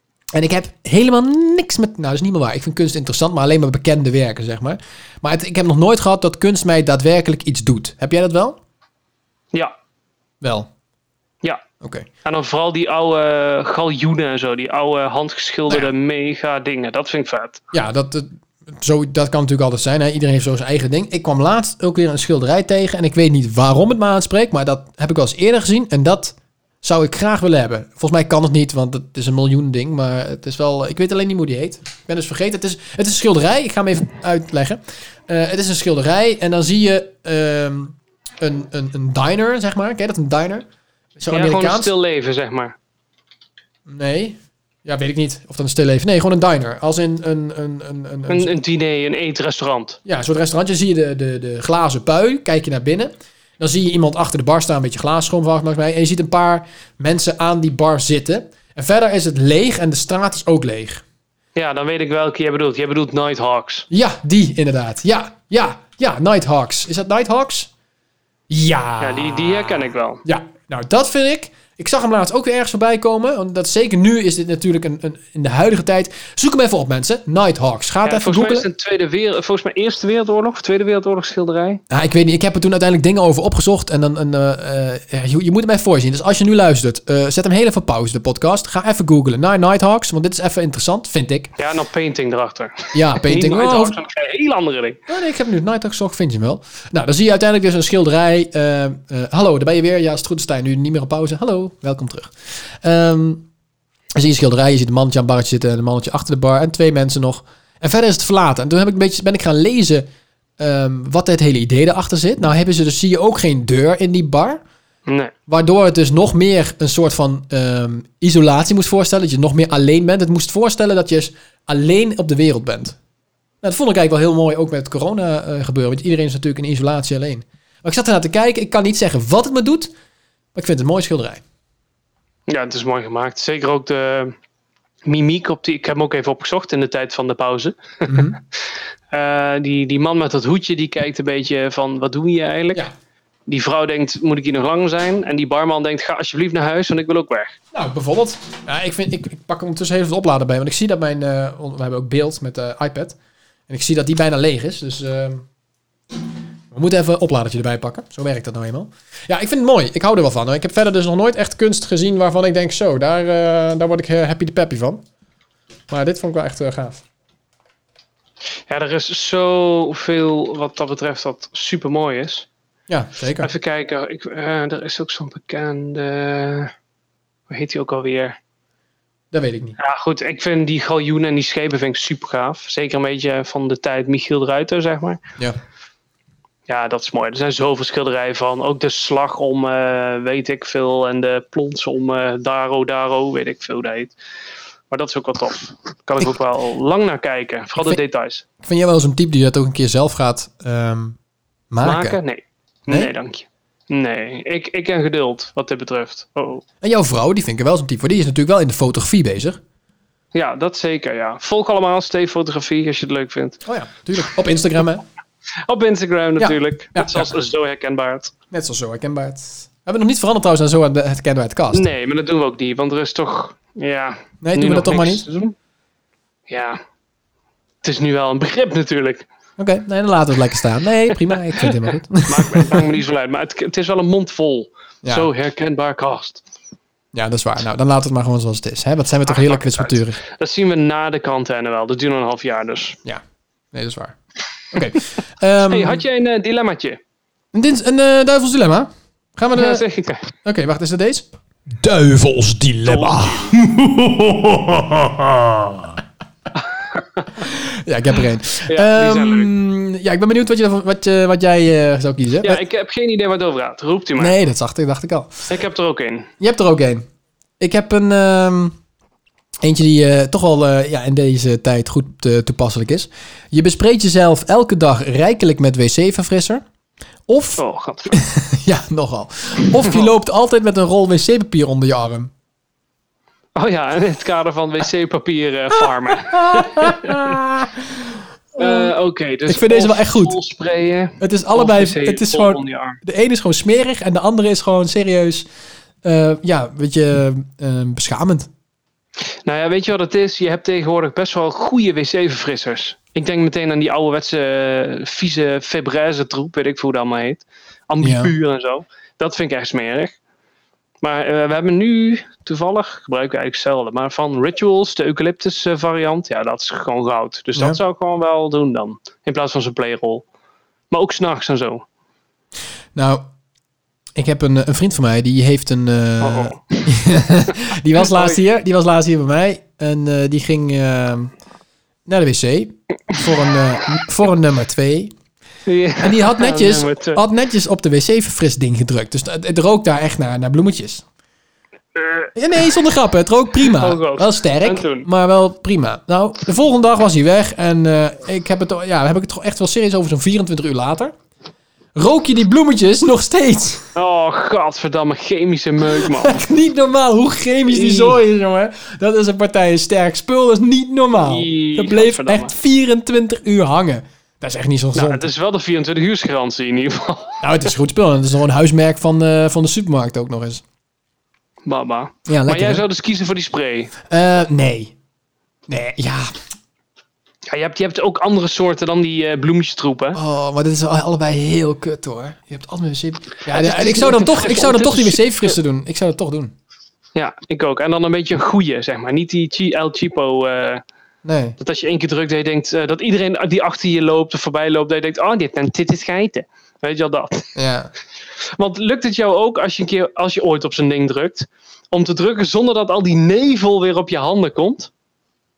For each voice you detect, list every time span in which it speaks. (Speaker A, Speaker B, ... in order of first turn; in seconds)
Speaker A: 0.3-8.6, 10.4-10.7, 11.8-12.1, 17.7-40.6, 41.2-41.9, 43.9-48.5, 50.0-61.0, 63.9-67.7, 68.5-78.7, 81.9-91.5, 92.9-94.0, 95.1-103.5, 104.1-110.0, 110.6-114.6, 115.5-123.0, 123.6-129.9, 130.5-131.4, 138.1-138.4, 147.7-153.2, 153.7-155.4, 156.7-165.0, 165.9-167.0, 172.9-173.5, 179.3-179.8, 198.6-201.2, 201.7-202.2, 206.8-209.6, 213.6-215.0, 216.4-217.3, 218.5-221.9, 224.4-225.2, 229.6-232.9, 235.0-235.3, 237.1-240.2, 243.7-244.2, 244.7-246.0, 247.5-249.8, 250.4-256.0, 257.4-262.6, 264.2-265.3, 266.4-267.0, 267.6-268.8, 269.6-276.6, 277.3-282.3, 286.1-288.9, 289.5-290.4, 291.2-295.4, 296.0-298.5, 308.0-308.3, 322.9-323.2, 324.1-331.3, 332.1-335.1, 336.0-341.0, 342.4-351.1, 351.9-353.9, 355.9-365.3, 367.4-370.6, 372.3-372.8, 374.1-374.9, 375.7-376.3, 380.1-386.5, 391.2-391.6, 397.6-397.9
Speaker B: 12.2-17.6, 41.3-42.7, 48.3-50.0, 61.5-63.9, 69.0-70.2, 78.0-81.8, 91.6-95.0, 115.1-115.3, 132.5-134.3, 135.1-138.3, 139.1-142.8, 143.5-147.6, 168.7-172.5, 173.4-176.7, 177.5-178.4, 179.8-185.2, 186.7-194.1, 194.9-198.4, 201.8-206.6, 210.3-213.6, 215.7-218.3, 221.7-225.5, 226.5-226.8, 227.8-229.3, 232.3-236.4, 239.2-243.0, 245.7-247.0, 249.5-250.3, 252.8-253.6, 256.6-257.4, 258.7-259.5, 262.4-264.4, 265.5-266.3, 277.6-278.2, 279.8-280.1, 283.6-287.4, 288.6-293.0, 299.4-310.2, 311.0-320.2, 320.9-321.8, 326.2-328.4, 335.6-337.2, 341.9-342.3, 343.6-345.1, 353.9-356.4, 357.7-358.2, 361.1-362.5, 364.9-367.4, 371.6-373.9, 377.5-380.2, 383.4-385.5, 387.1-390.8, 391.6-397.5, 398.5-404.9